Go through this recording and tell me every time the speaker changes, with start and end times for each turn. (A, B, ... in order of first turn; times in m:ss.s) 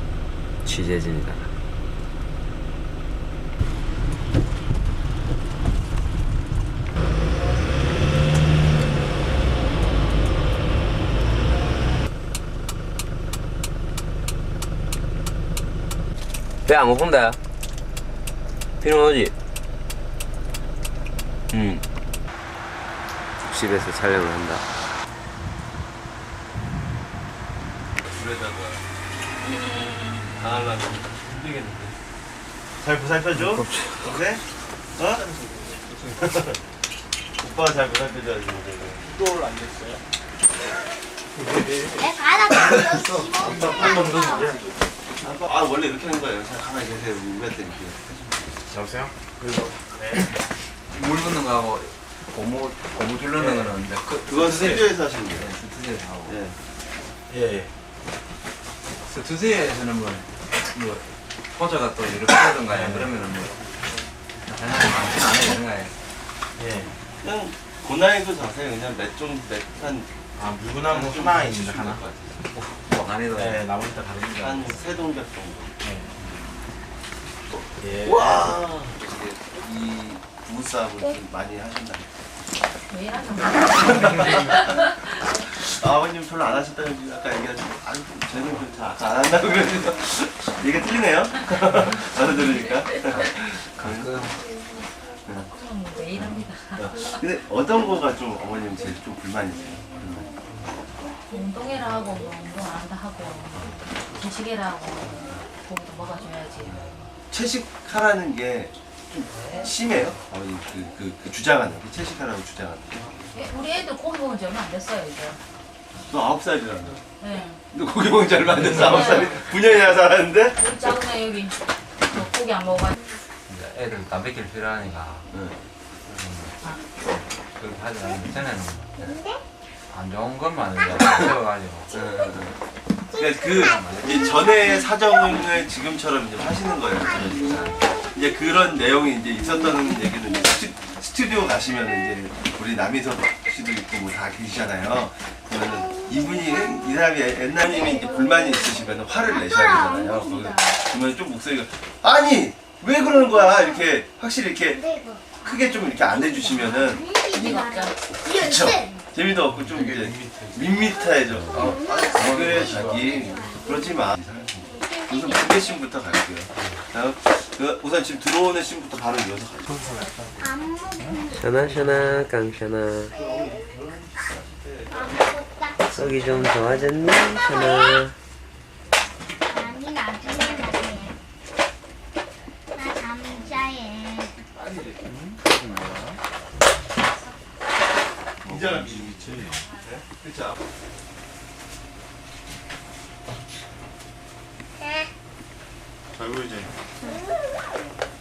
0:00.6-0:01.5 A
0:16.7-0:17.4 A
0:18.8-0:19.3 A
0:21.5-0:21.8 A
0:23.5-0:24.6 A
0:28.1-0:28.8 B
0:30.3-0:32.0 B
0:32.8-0:34.4 B
0:33.4-0:33.9 C
0:35.0-0:35.3 B
0:35.1-0:36.2 D
0:36.2-0:36.6 B
0:37.4-0:39.1 B
0:39.1-0:40.0 D
0:41.4-0:42.1 D
0:41.9-0:44.6 E
0:43.4-0:44.7 D
0:45.2-0:48.3 B
0:48.7-0:50.2 D
0:50.9-0:56.4 C
0:53.4-0:53.7 D
0:54.3-0:55.5 B
0:56.3-0:56.6 B
0:57.3-0:57.7 D
0:59.0-1:03.6 C
1:02.7-1:03.2 D
1:04.4-1:05.9 C
1:06.6-1:06.9 D
1:07.2-1:10.1 B
1:10.4-1:12.0 D
1:10.9-1:12.0 B
1:11.3-1:13.7 C
1:13.3-1:14.6 D
1:14.4-1:15.7 B
1:15.8-1:16.1 D
1:17.5-1:19.0 B
1:17.8-1:18.5 D
1:19.0-1:19.8 C
1:19.7-1:22.1 B
1:22.9-1:25.0 F
1:23.7-1:34.2 B
1:33.1-1:34.4 C
1:34.6-1:37.2 F
1:35.2-1:35.5 B
1:36.4-1:40.3 B
1:41.3-1:46.9 F
1:43.5-1:43.9 B
1:46.7-1:53.1 B
1:53.3-1:55.4 F
1:56.0-1:57.0 B
1:57.2-1:57.6 F
1:57.7-2:00.6 B
1:58.6-1:59.4 F
2:00.6-2:03.0 F
2:03.5-2:05.3 C
2:05.3-2:05.6 B
2:06.1-2:06.5 C
2:07.6-2:09.2 C
2:09.0-2:09.4 E
2:09.9-2:11.9 C
2:10.8-2:11.3 E
2:11.9-2:12.3 E
2:11.9-2:12.6 B
2:13.1-2:15.0 E
2:13.2-2:34.9 B
2:16.8-2:18.6 E
2:19.4-2:20.7 E
2:25.7-2:27.0 E
2:27.6-2:30.8 E
2:33.1-2:33.9 E
2:34.7-2:39.0 E
2:35.4-2:37.0 B
2:37.3-2:37.9 F
2:38.2-2:50.1 B
2:39.7-2:40.6 D
2:40.7-2:45.8 E
2:42.2-2:43.3 C
2:49.7-2:50.5 D
2:50.4-2:51.6 E
2:51.0-2:52.1 D
2:51.3-2:53.1 A
2:53.1-2:53.7 E
2:53.1-2:55.2 B
2:54.9-2:56.0 E
2:55.9-2:58.1 A
2:57.4-2:58.1 E
2:59.5-3:01.2 E
3:02.7-3:04.4 E
3:04.6-3:04.9 B
3:08.4-3:10.6 B
3:14.8-3:15.1 E
3:17.0-3:17.5 E